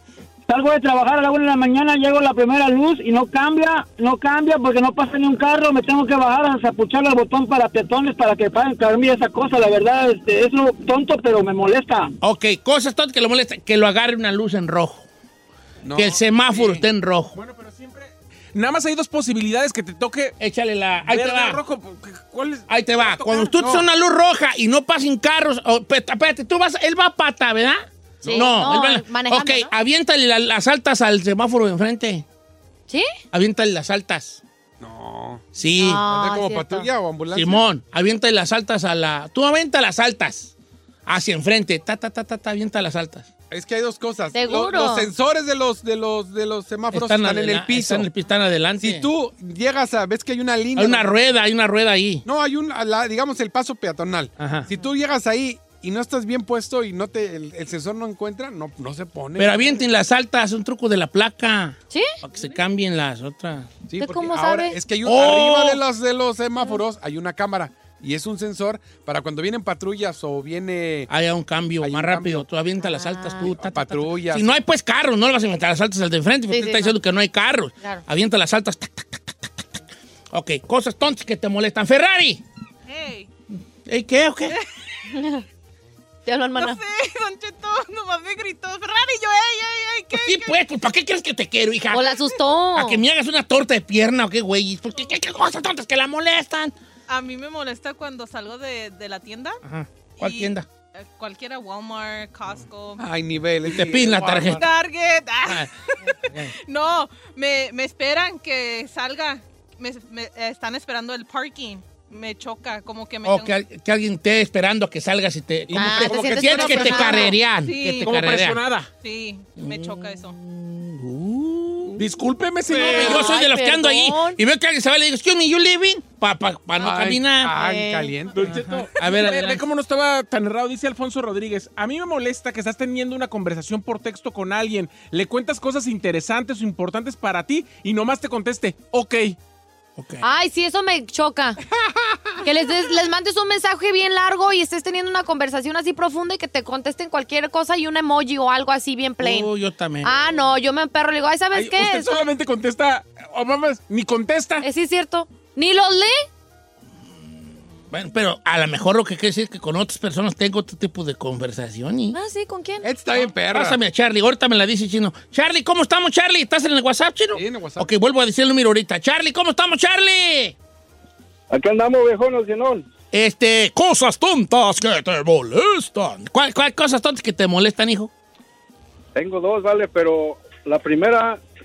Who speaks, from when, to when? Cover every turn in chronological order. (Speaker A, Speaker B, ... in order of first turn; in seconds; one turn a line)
Speaker A: 0.5-12.1
Speaker B: 12.2-15.1
Speaker C: 15.8-16.8
Speaker B: 15.9-17.4
Speaker D: 17.4-20.4
Speaker B: 20.4-21.6
Speaker D: 21.1-23.5
Speaker B: 22.7-32.2
Speaker C: 23.6-23.8
Speaker C: 28.2-28.6
Speaker E: 28.3-29.7
Speaker B: 33.3-34.4
Speaker C: 34.8-35.5
Speaker B: 35.5-36.0
Speaker E: 35.8-36.9
Speaker C: 36.0-37.6
Speaker B: 37.3-40.5
Speaker B: 41.1-43.3
Speaker C: 43.5-48.1
Speaker E: 44.3-45.1
Speaker B: 46.9-49.1
Speaker C: 48.8-51.1
Speaker B: 50.8-52.2
Speaker C: 52.3-59.7
Speaker B: 54.4-54.7
Speaker B: 59.4-63.8
Speaker C: 63.9-71.1
Speaker E: 64.0-64.8
Speaker B: 65.0-65.8
Speaker B: 71.1-79.8
Speaker C: 71.8-72.4
Speaker E: 72.8-73.5
Speaker C: 73.5-74.5
Speaker E: 76.5-76.9
Speaker B: 80.3-82.4
Speaker F: 82.9-83.3
Speaker B: 83.9-84.6
Speaker E: 85.1-85.4
Speaker E: 86.3-86.8
Speaker F: 86.6-90.6
Speaker B: 90.1-92.2
Speaker E: 91.9-93.0
Speaker B: 92.7-96.7
Speaker F: 97.1-99.6
Speaker B: 99.6-100.7
Speaker F: 100.2-103.1
Speaker C: 103.0-104.7
Speaker B: 103.7-104.7
Speaker F: 104.4-113.6
Speaker B: 113.2-118.6
Speaker D: 115.7-117.3
Speaker E: 115.7-117.4
Speaker F: 117.6-118.1
Speaker D: 118.0-118.9
Speaker F: 119.0-120.3
Speaker B: 119.6-122.0
Speaker D: 122.0-123.4
Speaker C: 122.7-123.3
Speaker E: 122.7-124.4
Speaker B: 122.8-127.6
Speaker C: 126.8-128.6
Speaker E: 127.5-128.2
Speaker D: 128.3-139.4
Speaker B: 128.4-129.7
Speaker B: 140.0-140.2
Speaker E: 140.2-141.6
Speaker E: 142.4-149.5
Speaker B: 149.2-150.1
Speaker E: 150.0-152.2
Speaker D: 151.5-154.7
Speaker E: 154.6-156.3
Speaker B: 157.9-162.2
Speaker E: 162.1-162.9
Speaker C: 162.8-163.8
Speaker B: 163.2-170.6
Speaker C: 167.3-167.9
Speaker G: 171.5-172.8
Speaker B: 173.1-178.1
Speaker G: 179.2-181.4